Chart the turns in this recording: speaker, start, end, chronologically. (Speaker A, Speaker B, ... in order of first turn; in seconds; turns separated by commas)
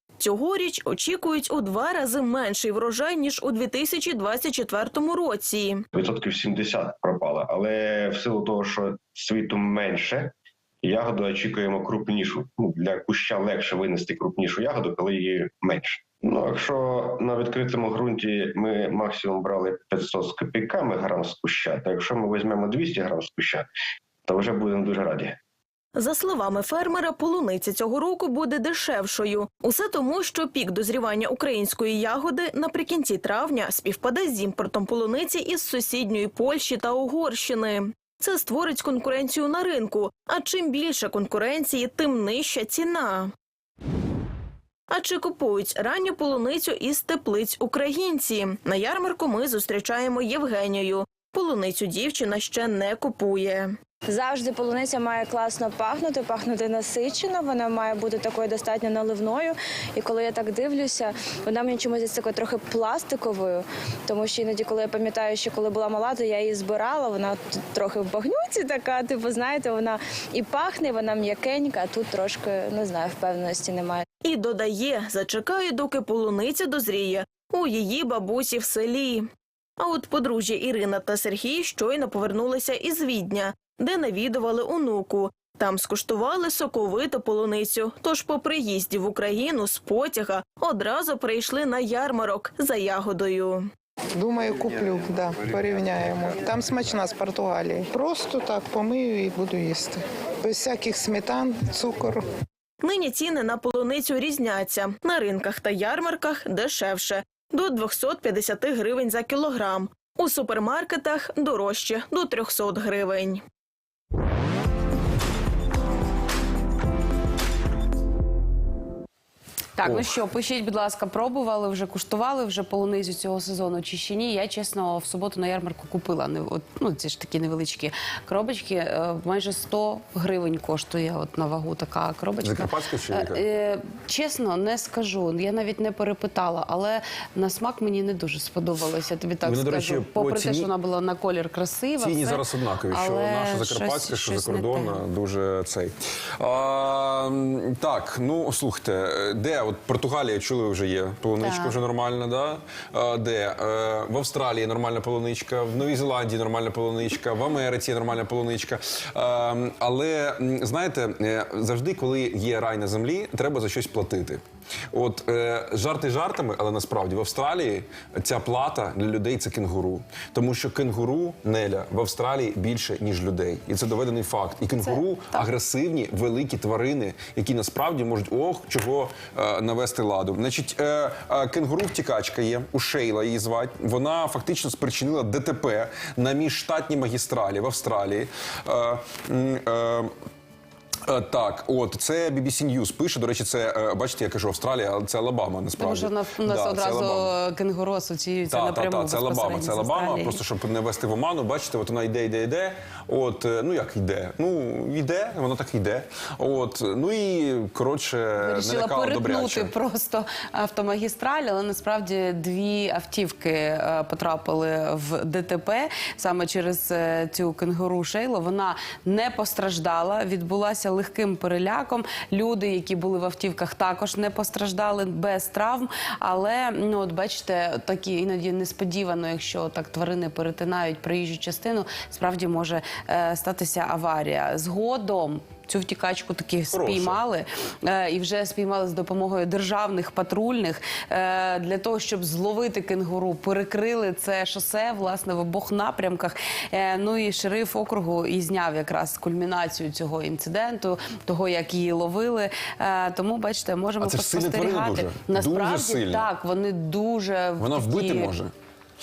Speaker A: 0.2-5.8, Speaker B: 5.9-23.7, Speaker B: 24.3-25.4, Speaker A: 26.0-43.3, Speaker A: 44.9-53.7, Speaker C: 54.1-74.0, Speaker A: 74.2-79.3, Speaker A: 79.8-93.7, Speaker D: 94.2-102.2, Speaker A: 102.8-113.4, Speaker E: 119.8-145.0, Speaker F: 119.8-120.2, Speaker F: 132.4-133.4, Speaker F: 139.4-140.7, Speaker F: 142.0-190.1, Speaker E: 151.4-151.8, Speaker E: 174.8-175.5, Speaker F: 191.1-197.4, Speaker E: 195.8-200.4, Speaker F: 198.5-209.7, Speaker E: 208.4-258.4, Speaker F: 236.7-237.2, Speaker F: 254.0-256.3, Speaker F: 257.6-258.5